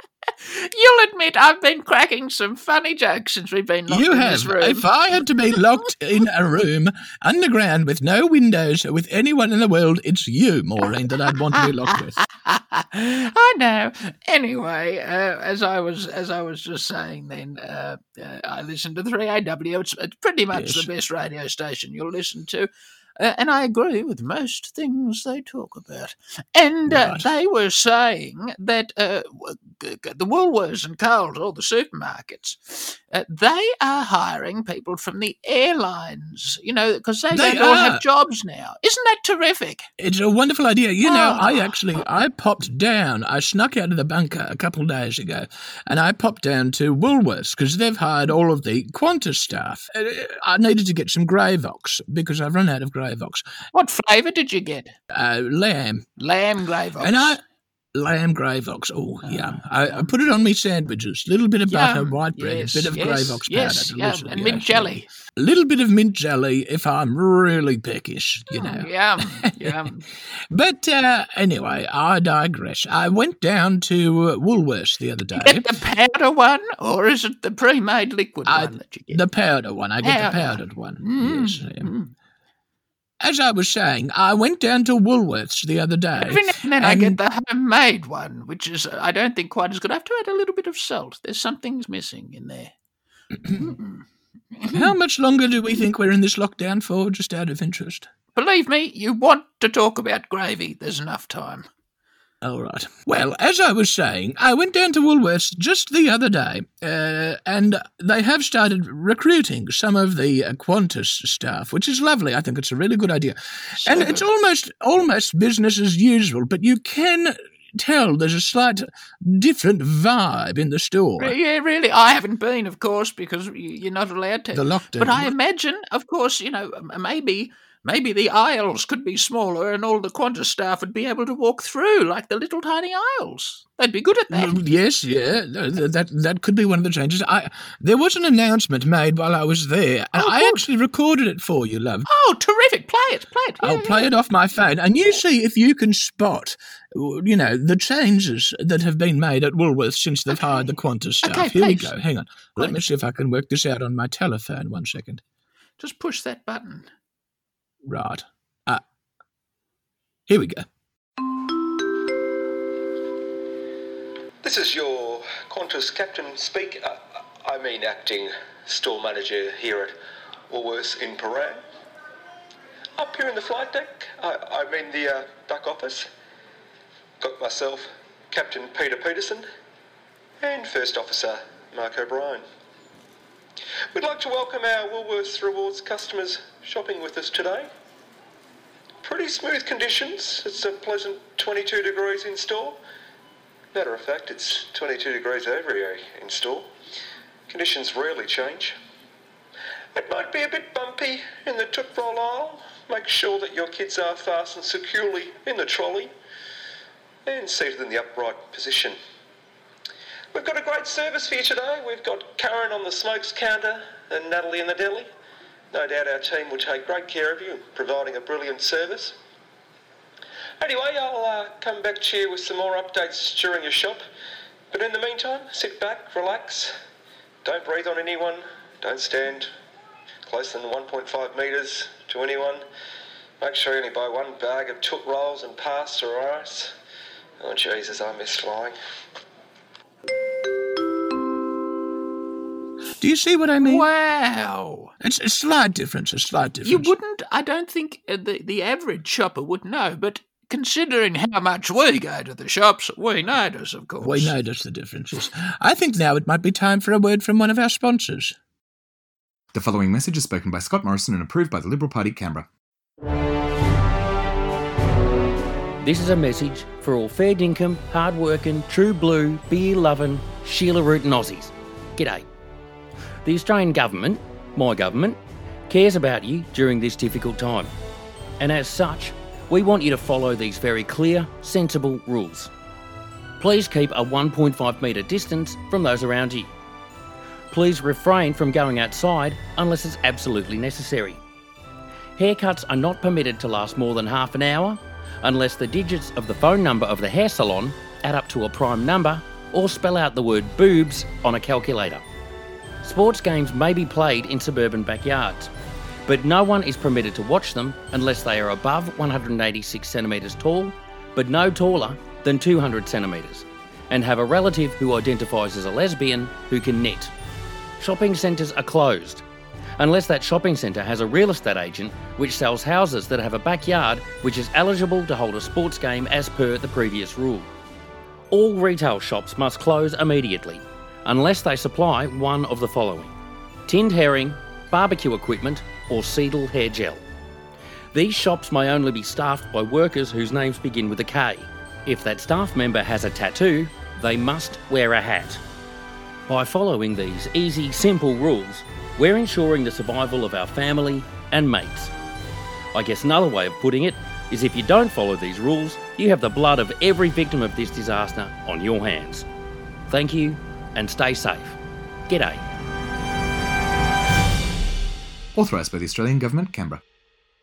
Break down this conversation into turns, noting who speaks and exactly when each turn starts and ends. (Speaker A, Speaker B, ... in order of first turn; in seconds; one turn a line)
Speaker A: 0.3-4.9
Speaker B: 3.9-12.2
Speaker A: 11.3-39.9
Speaker B: 20.5-20.9
Speaker B: 26.9-27.3
Speaker B: 37.3-38.0
Speaker B: 40.0-53.4
Speaker A: 41.0-41.8
Speaker A: 53.7-55.0
Speaker B: 55.1-56.1
Speaker A: 56.2-57.4
Speaker B: 57.0-57.4
Speaker B: 57.9-69.7
Speaker A: 59.2-60.1
Speaker A: 61.7-65.1
Speaker A: 68.5-70.0
Speaker B: 70.5-75.7
Speaker A: 75.3-79.2
Speaker B: 78.5-81.9
Speaker A: 80.0-82.1
Speaker B: 83.2-87.2
Speaker A: 86.2-92.7
Speaker A: 93.5-95.0
Speaker B: 94.7-98.1
Speaker A: 98.3-101.7
Speaker B: 102.4-121.4
Speaker A: 113.8-114.2
Speaker A: 121.2-134.6
Speaker B: 124.5-125.3
Speaker B: 134.3-142.1
Speaker A: 140.1-140.6
Speaker A: 142.1-144.1
Speaker B: 143.6-155.2
Speaker A: 151.2-151.9
Speaker A: 155.8-156.9
Speaker B: 157.8-158.8
Speaker B: 160.3-160.7
Speaker C: 164.4-169.9
Speaker C: 170.5-171.7
Speaker C: 173.0-176.1
Speaker C: 177.2-179.5
Speaker C: 180.4-182.4
Speaker C: 183.9-187.7
Speaker C: 189.0-192.8
Speaker C: 193.7-196.7
Speaker C: 197.5-198.8
Speaker C: 199.9-206.1
Speaker C: 207.3-209.0
Speaker C: 210.3-215.1
Speaker C: 215.7-219.2
Speaker C: 220.6-224.0
Speaker C: 224.7-226.7
Speaker C: 227.4-229.5
Speaker C: 230.3-232.6
Speaker C: 233.4-236.7
Speaker C: 237.4-238.8
Speaker B: 243.0-243.9
Speaker A: 243.6-244.9
Speaker B: 245.0-246.9
Speaker A: 246.6-254.3
Speaker B: 254.0-258.4
Speaker D: 259.5-262.5
Speaker E: 265.8-272.3
Speaker E: 273.2-275.2
Speaker E: 275.7-277.7
Speaker E: 278.4-282.5
Speaker E: 283.4-286.5
Speaker E: 287.5-291.2
Speaker E: 292.2-302.0
Speaker E: 302.8-305.5
Speaker E: 306.1-317.1
Speaker E: 317.8-319.2
Speaker E: 319.8-327.5
Speaker E: 328.3-333.1
Speaker E: 333.7-337.0
Speaker E: 337.9-345.4
Speaker E: 346.3-351.9
Speaker E: 352.7-359.2
Speaker E: 359.9-361.6
Speaker E: 362.1-362.4
Speaker D: 365.4-366.8